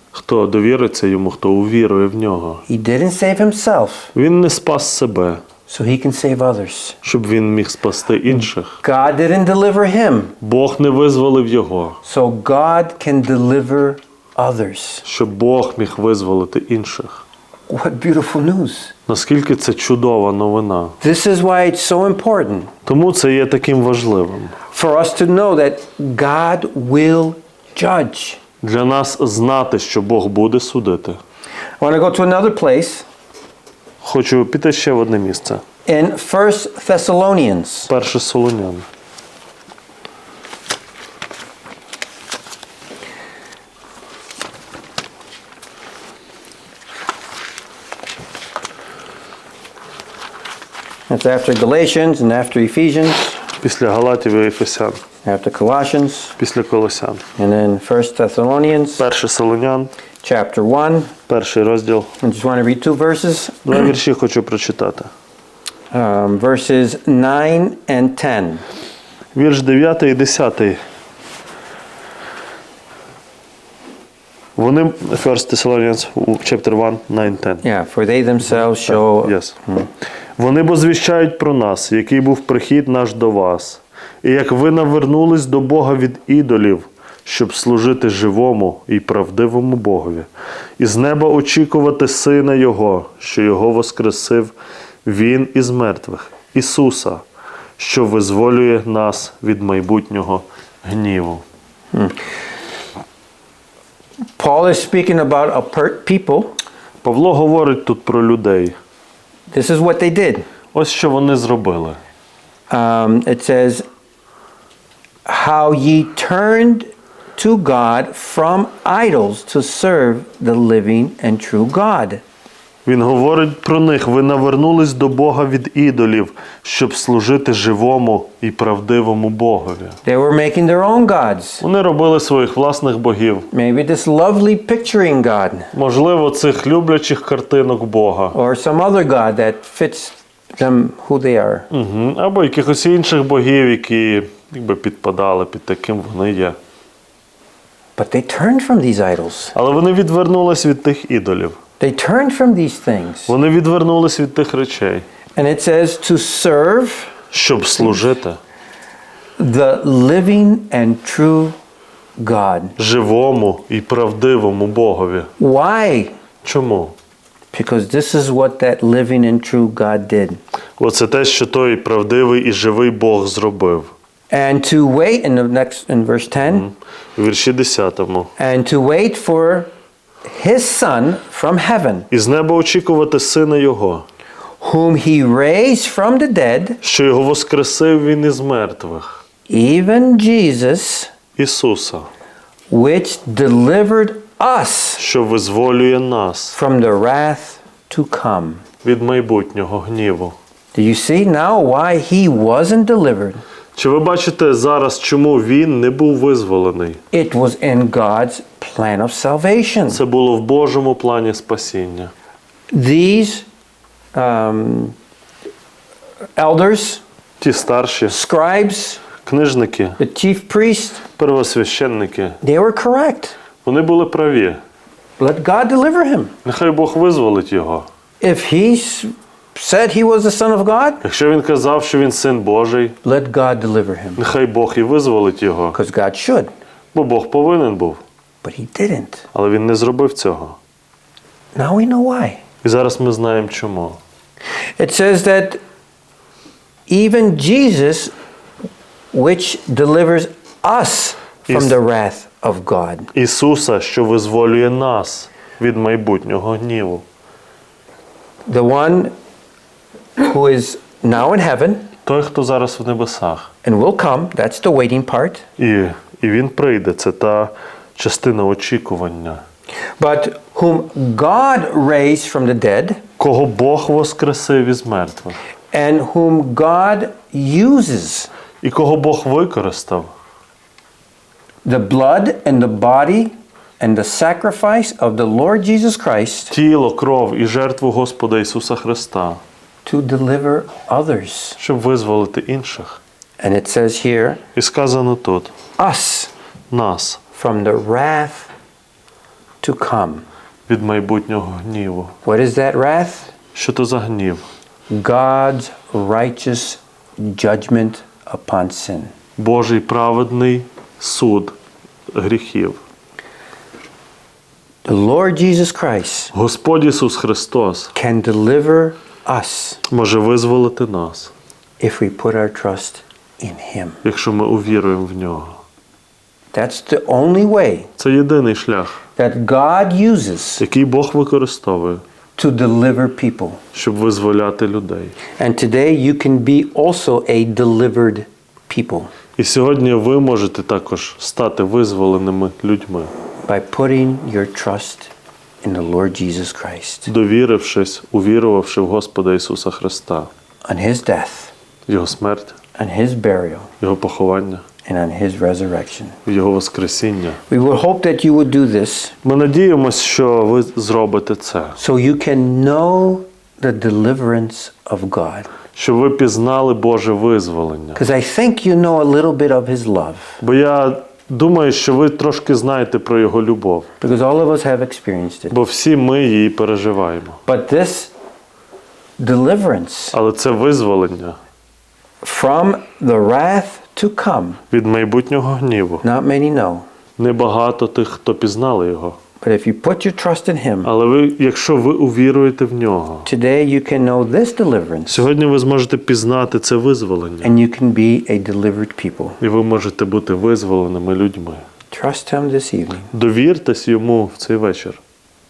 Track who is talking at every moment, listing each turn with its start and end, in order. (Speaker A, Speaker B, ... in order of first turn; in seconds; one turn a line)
Speaker A: 0.1-2.6
Speaker B: 2.7-4.1
Speaker A: 4.1-5.4
Speaker B: 5.7-7.0
Speaker A: 7.0-8.8
Speaker B: 8.8-10.3
Speaker A: 10.4-12.0
Speaker B: 12.0-15.0
Speaker A: 15.0-17.2
Speaker B: 17.7-18.9
Speaker A: 19.1-20.9
Speaker B: 21.0-22.7
Speaker A: 22.8-24.6
Speaker B: 24.7-28.4
Speaker A: 28.6-31.2
Speaker B: 31.8-33.0
Speaker A: 34.0-35.6
Speaker B: 35.9-37.9
Speaker A: 37.9-38.9
Speaker B: 51.1-53.4
Speaker A: 53.6-55.0
Speaker B: 55.2-56.4
Speaker A: 56.4-57.2
Speaker B: 57.4-59.0
Speaker A: 59.0-59.9
Speaker B: 60.2-61.1
Speaker A: 61.3-62.1
Speaker B: 62.2-63.7
Speaker A: 63.6-65.1
Speaker B: 65.9-68.6
Speaker A: 69.3-70.8
Speaker A: 74.5-77.6
Speaker B: 77.6-79.9
Speaker A: 78.5-79.5
Speaker A: 80.4-94.5
Speaker A: 95.0-97.2
Speaker A: 97.8-101.4
Speaker B: 104.4-106.5
Speaker A: 107.0-108.8
Speaker B: 109.5-110.5
Speaker A: 110.7-112.0
Speaker B: 112.7-113.8
Speaker B: 115.2-122.2
Speaker A: 122.8-130.0
Speaker B: 130.0-131.6
Speaker A: 131.6-133.5
Speaker B: 133.5-135.7
Speaker A: 135.7-138.3
Speaker B: 138.3-141.7
Speaker A: 141.7-146.6
Speaker B: 148.0-149.5
Speaker A: 149.5-151.6
Speaker B: 151.8-153.3
Speaker A: 153.3-155.1
Speaker B: 155.3-157.2
Speaker A: 157.3-158.4
Speaker B: 159.4-161.5
Speaker B: 162.2-162.7
Speaker A: 162.8-165.3
Speaker B: 165.4-166.1
Speaker A: 166.4-166.9
Speaker B: 167.5-170.4
Speaker A: 170.8-173.9
Speaker B: 174.3-176.7
Speaker A: 176.4-178.3
Speaker B: 178.4-179.7
Speaker B: 180.2-182.1
Speaker A: 182.1-184.1
Speaker B: 184.6-186.8
Speaker A: 186.8-189.2
Speaker B: 189.5-191.1
Speaker A: 191.3-192.1
Speaker B: 192.7-195.0
Speaker A: 195.0-196.6
Speaker B: 196.5-198.6
Speaker A: 198.8-200.3
Speaker B: 200.7-203.4
Speaker A: 203.7-207.0
Speaker B: 207.1-210.0
Speaker A: 209.9-212.1
Speaker B: 212.7-213.4
Speaker B: 214.1-214.9
Speaker B: 216.4-217.0
Speaker A: 217.4-218.2
Speaker B: 218.1-219.0
Speaker A: 219.2-220.0
Speaker B: 220.0-221.0
Speaker A: 221.2-222.4
Speaker B: 222.4-223.3
Speaker A: 223.6-224.6
Speaker B: 225.2-226.3
Speaker A: 226.4-227.9
Speaker B: 228.2-231.0
Speaker A: 231.0-233.0
Speaker B: 233.0-234.2
Speaker A: 234.2-235.8
Speaker B: 235.7-236.5
Speaker A: 236.9-238.0
Speaker B: 238.4-239.2
Speaker A: 239.3-240.6
Speaker B: 241.5-242.4
Speaker A: 242.6-244.0
Speaker B: 244.8-245.6
Speaker B: 246.9-248.1
Speaker B: 249.1-253.1
Speaker A: 251.5-251.8
Speaker A: 253.1-257.0
Speaker B: 258.4-259.1
Speaker B: 260.2-261.9
Speaker A: 262.0-263.5
Speaker B: 263.6-265.4
Speaker A: 265.6-269.4
Speaker B: 270.0-273.0
Speaker A: 273.2-275.4
Speaker B: 275.7-278.3
Speaker A: 278.6-280.1
Speaker B: 281.6-286.5
Speaker A: 286.5-289.4
Speaker B: 289.8-291.6
Speaker A: 291.6-293.0
Speaker B: 293.4-294.4
Speaker A: 294.5-295.5
Speaker B: 295.8-296.3
Speaker A: 296.7-297.2
Speaker B: 297.3-298.5
Speaker B: 299.6-300.2
Speaker A: 300.7-302.1
Speaker B: 302.2-303.3
Speaker A: 303.5-304.4
Speaker B: 304.9-309.1
Speaker A: 309.4-311.6
Speaker A: 312.1-312.8
Speaker B: 314.8-316.3
Speaker A: 316.3-317.9
Speaker B: 317.9-319.8
Speaker A: 319.9-321.3
Speaker B: 321.8-324.0
Speaker A: 324.0-325.6
Speaker B: 326.5-327.9
Speaker A: 328.0-329.0
Speaker B: 329.2-330.6
Speaker A: 330.6-332.0
Speaker B: 332.4-333.6
Speaker A: 333.7-335.1
Speaker B: 335.4-339.1
Speaker A: 339.4-343.1
Speaker B: 343.5-345.1
Speaker B: 345.6-347.1
Speaker A: 347.1-350.3
Speaker B: 350.7-351.5
Speaker A: 351.9-352.6
Speaker B: 352.8-353.7
Speaker A: 353.8-354.6
Speaker B: 354.8-356.2
Speaker A: 356.2-357.4
Speaker B: 357.5-359.1
Speaker A: 359.2-361.8
Speaker B: 361.8-365.5
Speaker A: 365.7-368.0
Speaker B: 367.9-370.4
Speaker A: 370.4-373.9
Speaker B: 374.0-375.5
Speaker A: 375.5-377.4
Speaker B: 377.5-378.1
Speaker B: 379.2-380.1
Speaker A: 380.1-381.4
Speaker B: 382.2-384.6
Speaker A: 384.7-386.0
Speaker B: 386.0-386.9
Speaker A: 387.2-389.2
Speaker B: 389.4-390.9
Speaker A: 390.8-393.3
Speaker B: 393.2-395.2
Speaker A: 395.1-397.5
Speaker B: 397.4-399.4
Speaker A: 399.4-401.6
Speaker B: 401.9-403.1
Speaker A: 403.1-405.0